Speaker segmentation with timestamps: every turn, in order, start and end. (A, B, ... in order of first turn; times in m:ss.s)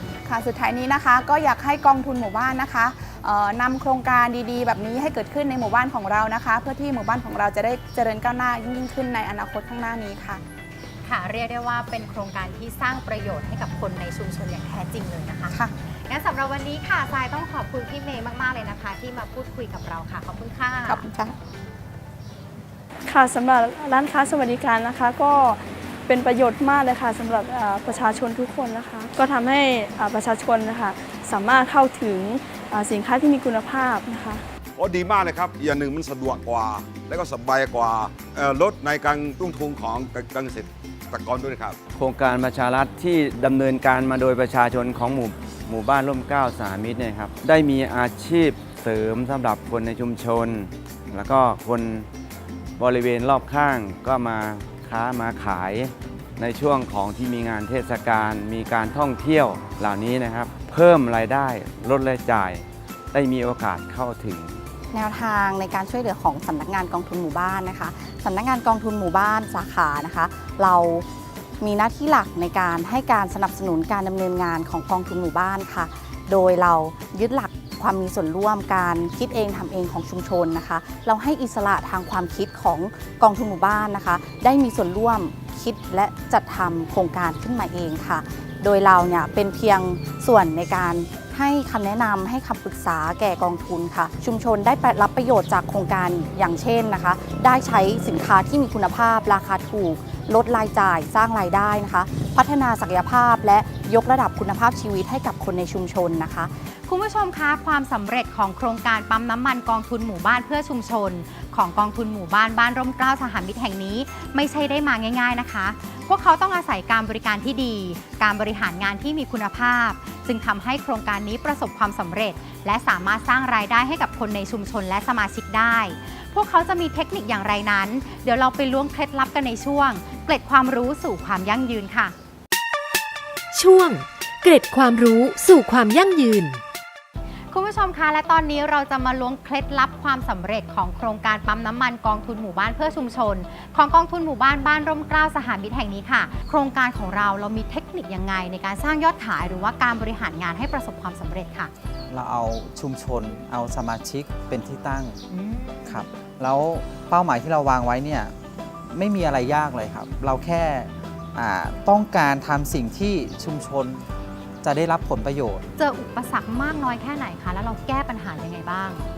0:00.2-0:10.4 A
0:11.0-0:21.0 B
0:20.9-0:21.4 A
0:23.1-0:34.4 C
0:34.8-0:41.8 D
0:41.9-0:52.1 E
0:52.8-1:04.6 E
1:04.9-1:11.1 F
1:11.6-1:46.5 F
1:46.7-2:12.2 B
2:13.5-2:16.6 G
2:17.5-2:31.7 B
2:32.1-2:35.2 H
2:35.3-2:36.0 B
2:35.8-2:38.4 H
2:38.9-2:44.1 H
2:44.6-2:45.6 H
2:45.8-2:49.1 B